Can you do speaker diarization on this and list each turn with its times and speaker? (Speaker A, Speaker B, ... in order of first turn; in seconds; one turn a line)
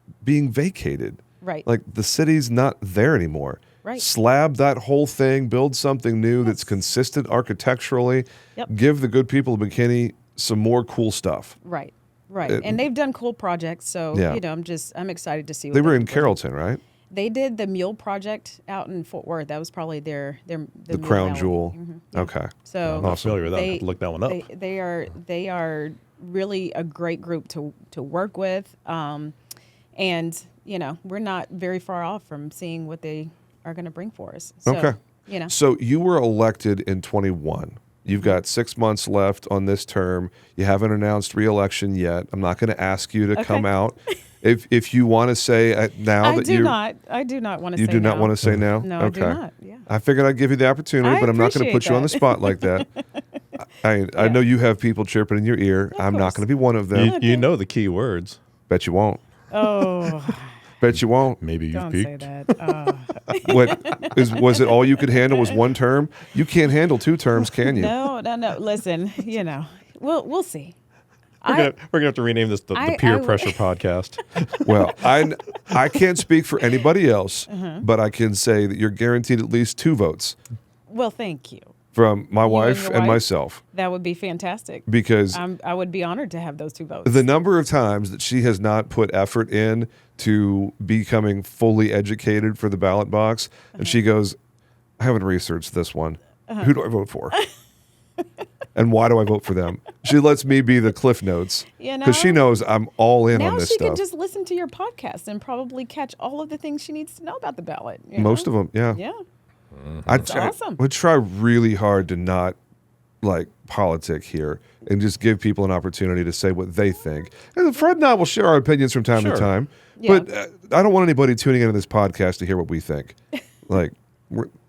Speaker A: 0.2-11.6
Speaker B: 6.4-6.8
Speaker B: 11.6-16.4
Speaker A: 12.4-12.8
Speaker A: 14.1-14.4
Speaker A: 15.7-16.8
Speaker B: 17.1-29.3
Speaker A: 20.9-23.4
Speaker C: 22.8-24.5
Speaker B: 29.9-35.5
Speaker A: 34.6-35.0
Speaker A: 35.5-46.8
Speaker B: 43.3-43.7
Speaker B: 46.2-49.9
Speaker A: 47.8-52.9
Speaker B: 51.0-52.9
Speaker A: 53.7-57.2
Speaker B: 54.1-54.4
Speaker B: 55.9-56.4
Speaker C: 56.9-58.4
Speaker B: 57.0-57.5
Speaker A: 58.7-59.2
Speaker B: 59.5-60.6
Speaker C: 59.6-60.3
Speaker A: 60.8-61.4
Speaker C: 60.9-63.0
Speaker B: 61.7-65.6
Speaker A: 63.4-68.0
Speaker B: 67.6-70.8
Speaker B: 71.4-71.7
Speaker C: 71.5-75.8
Speaker B: 72.7-73.6
Speaker A: 74.6-80.4
Speaker B: 77.5-77.8
Speaker B: 80.9-81.7
Speaker A: 81.9-83.6
Speaker B: 82.4-87.3
Speaker A: 84.9-85.4
Speaker A: 87.0-94.4
Speaker B: 93.8-94.0
Speaker A: 95.0-97.3
Speaker B: 96.5-96.7
Speaker A: 98.7-104.0
Speaker B: 101.8-102.4
Speaker B: 103.3-109.2
Speaker A: 108.2-109.0
Speaker C: 109.7-110.3
Speaker A: 110.0-112.6
Speaker B: 110.1-110.8
Speaker A: 113.2-124.5
Speaker C: 119.1-119.5
Speaker B: 120.0-120.3